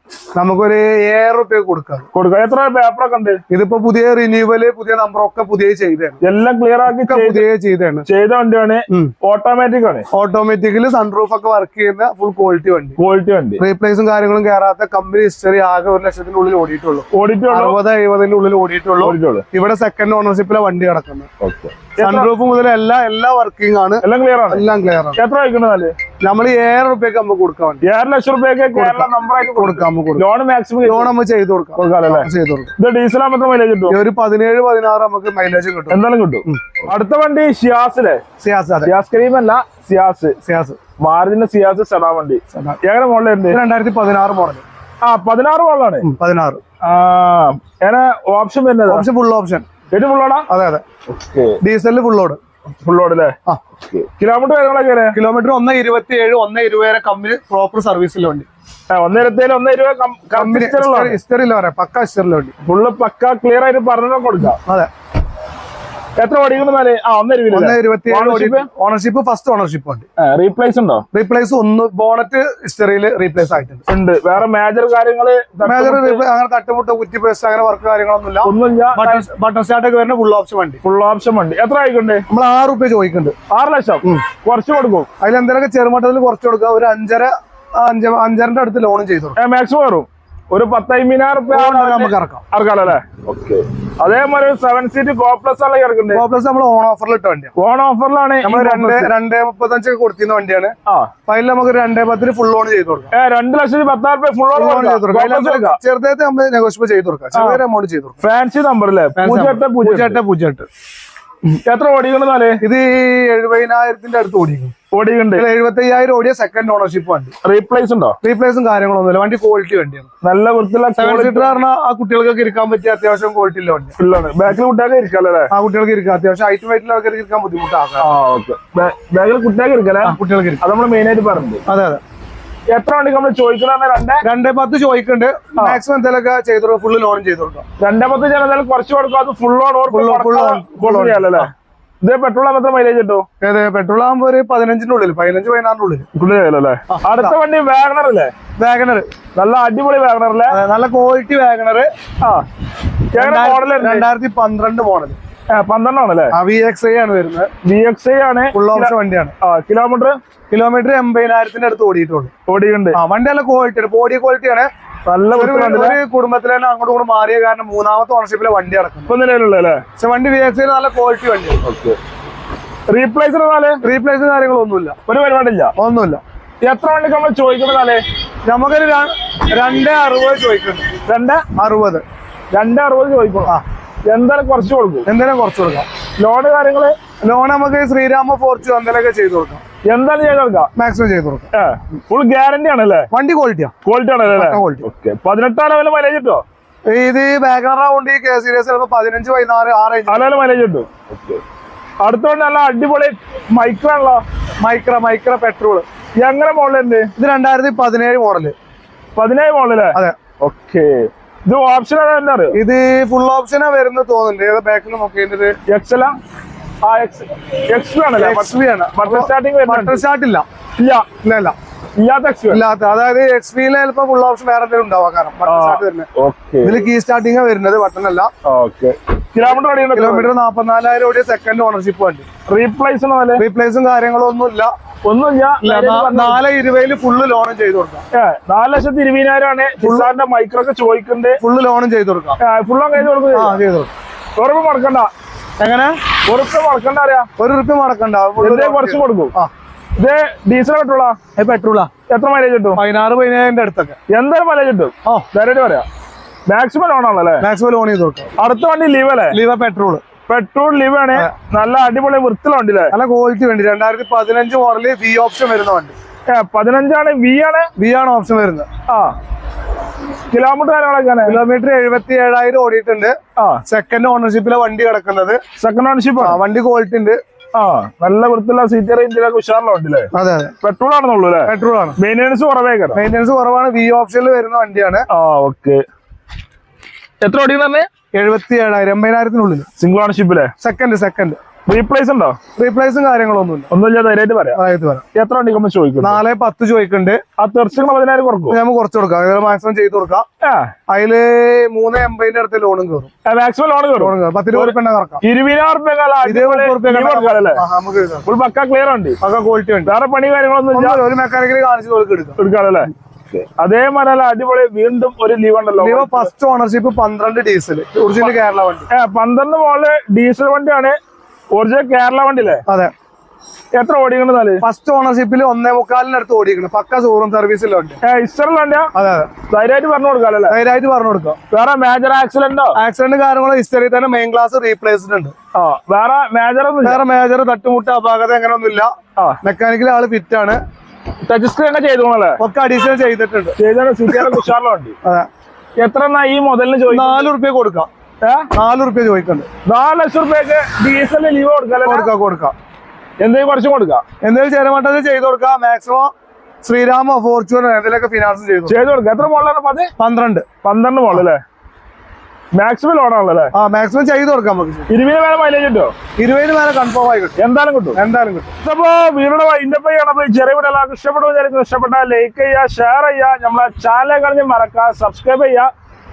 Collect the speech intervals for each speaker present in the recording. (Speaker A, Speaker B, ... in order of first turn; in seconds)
Speaker A: 0.3-2.1, 3.5-6.2, 6.9-8.1, 10.1-13.0, 13.6-21.3, 22.0-25.2, 26.2-27.8, 28.7-30.2, 30.8-32.7, 33.9-36.8, 38.4-38.9, 40.4-40.8, 42.5-42.8, 43.5-44.6, 46.0-46.6, 48.9-49.6, 50.5-50.8, 51.6-52.4, 55.1-58.5, 60.3-62.5, 64.6-64.9, 67.5-70.0, 71.1-73.8, 75.6-80.8, 82.3-83.3, 85.2-89.4, 91.5-92.4, 96.1-97.5, 98.4-100.7, 101.3-103.1, 104.5-108.2, 109.2-110.7, 112.6-114.7, 115.3-117.3, 118.2-120.1, 121.0-123.9, 125.5-128.1, 130.0-130.6, 131.7-132.0, 134.2-137.6, 139.9-141.5, 143.4-146.1, 146.9-147.3, 148.6-149.1, 150.5-151.9, 153.1-155.2, 156.3-157.5, 158.5-159.3, 160.5-162.3, 162.9-164.7, 165.3-169.1, 170.0-171.6, 173.8-174.9, 175.8-176.2, 178.4-180.9, 181.6-182.0, 185.1-185.8, 187.2-189.6, 190.8-191.5, 193.1-193.7, 194.3-194.8, 196.9-200.5, 204.6-205.8, 207.2-208.5, 212.5-215.6, 218.2-220.4, 221.2-221.5, 222.5-226.1, 226.6-228.3, 229.9-232.2, 233.4-234.7, 235.6-238.0, 239.8-240.1, 241.4-242.4, 243.2-243.9, 245.6-246.0, 247.4-249.5, 251.3-251.9, 252.8-254.0, 257.4-258.3, 259.3-260.0, 262.9-265.9, 267.8-268.7, 271.2-275.4, 276.2-277.2, 280.1-280.5, 281.4-282.0, 282.9-285.1, 288.1-289.6, 290.6-291.4, 292.6-293.7, 294.5-295.0, 296.0-297.2, 298.5-300.2, 300.9-303.1, 304.0-305.2, 306.2-308.3, 309.2-309.9, 310.7-312.4, 315.8-318.9, 322.7-322.9, 324.6-328.0, 328.9-329.3, 330.5-331.4, 332.7-335.3, 336.8-338.9, 339.4-340.6, 342.4-343.6, 344.1-344.4, 346.9-347.9, 348.5-349.5, 351.8-352.5, 354.2-356.1, 356.6-358.8, 360.0-360.4, 363.5-364.9, 366.2-367.4, 367.9-368.5
Speaker B: 2.1-3.4, 6.2-7.5, 8.1-10.1, 13.0-13.6, 17.1-17.8, 19.0-19.4, 21.4-22.3, 24.0-25.9, 27.8-31.1, 31.8-34.0, 35.9-38.2, 38.9-40.4, 41.0-43.6, 45.0-46.0, 46.8-49.0, 49.9-50.5, 51.1-51.6, 52.8-55.2, 58.9-61.2, 62.6-64.6, 66.2-68.7, 70.2-71.0, 73.9-76.2, 78.4-79.2, 80.8-82.2, 83.5-85.1, 89.4-96.2, 97.5-99.1, 103.1-105.8, 107.3-107.6, 108.2-110.2, 111.6-112.6, 114.9-115.4, 117.4-118.2, 120.2-121.6, 124.0-125.5, 128.0-131.6, 132.7-134.2, 137.8-141.5, 142.0-143.2, 146.1-148.3, 149.3-150.6, 153.1-154.1, 155.5-156.3, 157.6-160.2, 162.5-163.0, 165.1-166.0, 169.1-169.8, 171.6-172.0, 172.9-173.8, 175.1-175.7, 176.6-178.0, 181.1-181.4, 182.5-183.6, 184.1-185.1, 186.2-186.9, 189.9-190.7, 191.5-193.1, 193.8-196.4, 200.1-201.4, 202.0-204.2, 206.2-207.1, 209.2-212.6, 215.7-216.1, 216.8-220.0, 220.8-221.1, 222.0-222.6, 225.4-226.9, 228.4-230.3, 232.5-233.4, 235.1-236.4, 238.1-241.4, 242.4-243.6, 244.3-245.1, 246.2-247.3, 248.4-249.3, 250.0-251.2, 252.1-252.8, 254.1-255.8, 256.5-257.4, 258.4-259.4, 260.2-262.9, 266.3-267.7, 268.9-269.1, 270.3-271.4, 273.4-273.6, 275.6-276.4, 277.5-280.1, 280.6-283.0, 285.1-285.8, 287.2-287.9, 289.8-290.5, 291.7-292.4, 293.7-294.6, 295.1-296.2, 297.4-298.6, 300.4-300.7, 303.2-307.6, 308.2-309.2, 309.9-311.0, 312.4-316.3, 318.9-321.0, 321.5-322.6, 323.7-324.6, 328.0-328.9, 329.5-330.6, 331.5-332.8, 335.5-337.0, 341.2-342.4, 343.6-344.9, 345.8-347.3, 348.2-348.5, 349.6-352.1, 353.2-354.0, 358.7-359.9, 360.6-361.4, 362.5-363.5, 364.9-365.9, 367.4-368.0, 368.6-375.7